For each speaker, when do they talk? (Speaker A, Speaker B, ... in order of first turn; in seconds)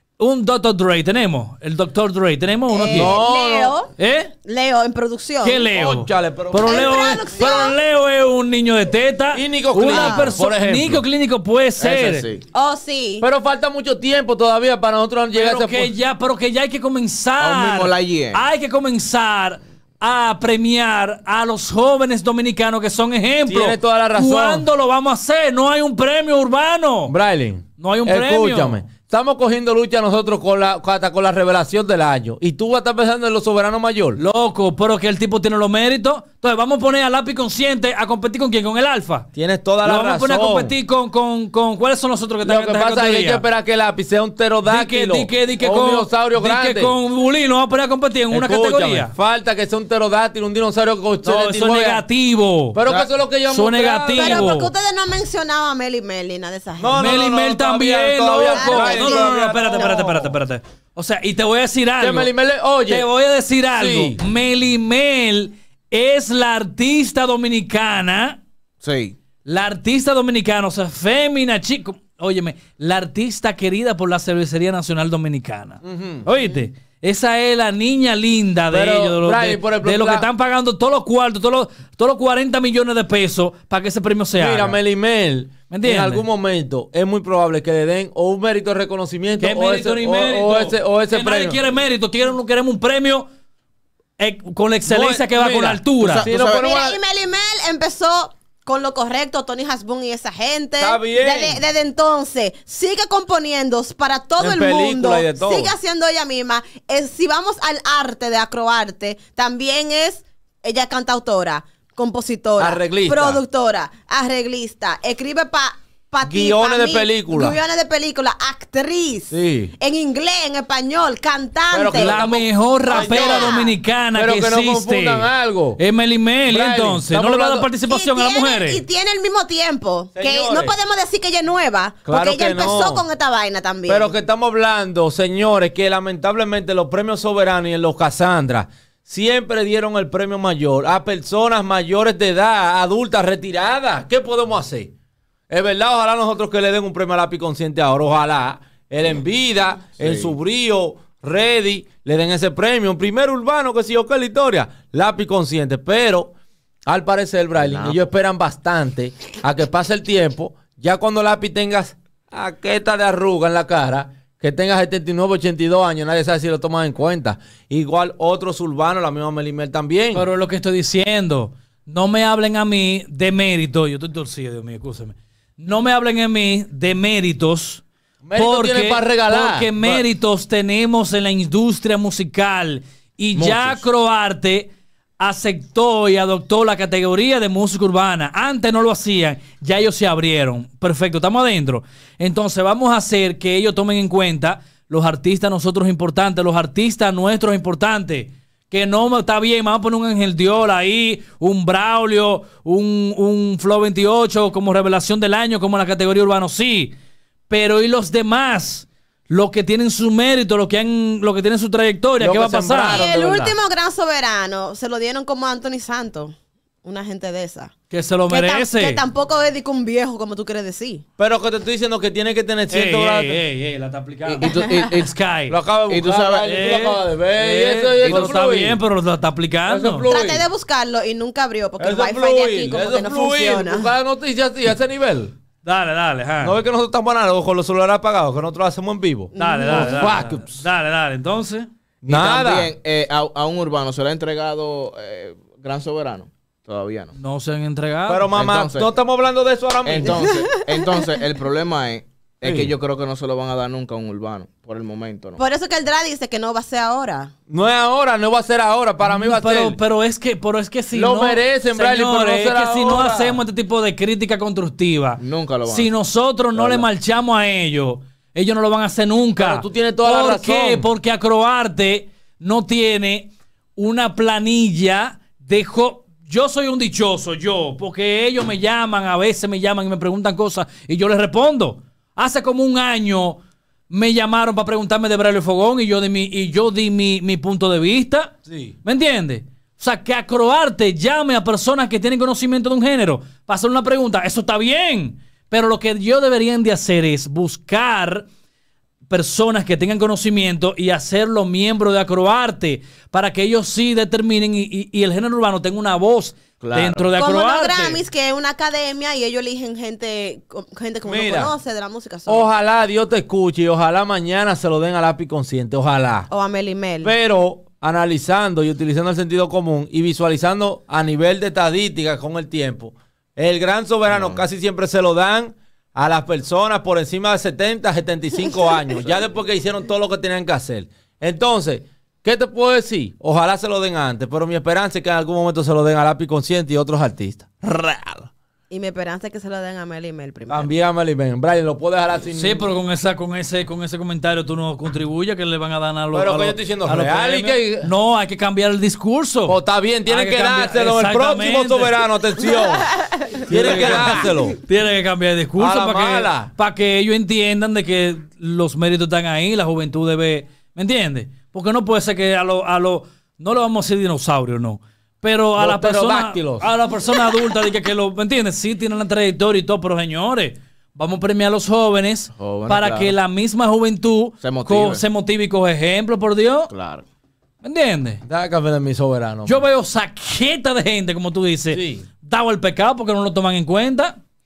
Speaker A: 0.2-3.2, 4.0-4.3, 5.4-12.3, 15.3-27.1, 27.8-28.8, 34.2-39.3, 39.8-43.4, 44.6-49.1, 51.2-52.8, 53.5-54.7, 57.0-62.3, 62.9-68.4, 69.5-84.8, 85.7-86.2, 89.4-93.3, 94.2-96.3, 121.9-128.8, 170.1-177.8, 178.3-206.9, 207.5-213.1, 217.9-219.0, 222.7-225.6, 226.5-230.1, 235.6-236.6, 239.4-241.7, 247.2-248.3, 259.0-283.4, 283.9-298.3, 299.1-308.0, 342.4-352.0, 353.4-376.7, 377.6-378.2, 379.5-384.2
Speaker B: 2.7-3.9, 4.5-5.7, 6.7-7.8, 9.9-10.4, 12.5-13.3, 54.1-57.0, 58.4-60.0, 96.3-122.2, 122.9-123.7, 127.9-134.1, 212.9-217.7, 218.3-221.1, 230.1-233.9, 239.3-240.1, 250.1-250.9, 255.4-257.3, 307.2-312.5, 316.3-317.1, 338.7-340.7
Speaker C: 2.9-3.8, 5.7-7.5, 9.3-11.0, 13.2-15.9, 23.5-24.7, 27.1-34.2, 39.4-40.7, 42.4-47.0, 48.3-52.0, 52.7-54.5, 56.8-60.3, 62.0-63.1, 63.8-64.2, 75.8-76.5, 78.7-80.3, 84.4-91.6, 94.9-97.0, 100.8-101.6, 104.4-105.7, 112.6-113.4, 116.2-117.6, 119.3-119.7, 121.7-123.6, 124.2-125.8, 126.5-127.7, 130.2-130.8, 132.1-133.0, 133.9-144.9, 145.5-156.3, 156.9-170.3, 178.2-180.0, 212.2-213.6, 221.2-223.4, 225.5-228.8, 229.7-230.4, 231.8-235.3, 236.4-240.6, 242.0-242.7, 248.1-250.4, 252.4-252.7, 257.5-259.8, 260.9-263.4, 269.4-270.9, 288.5-288.7, 311.1-311.5, 312.3-316.3, 317.0-338.3, 340.5-342.6, 346.1-347.9, 349.5-354.6, 355.6-356.5, 365.6-366.7, 378.2-379.6, 381.7-382.1
Speaker D: 11.8-12.4, 17.4-18.4, 68.8-69.2, 96.0-96.6, 150.0-150.3, 157.6-158.0, 183.4-183.7, 224.3-225.1, 225.9-226.6, 242.0-247.2, 248.3-248.9, 249.8-255.4, 265.2-265.9, 266.6-266.8, 306.6-307.1, 324.1-324.4, 372.4-373.1, 374.4-375.0, 376.7-377.0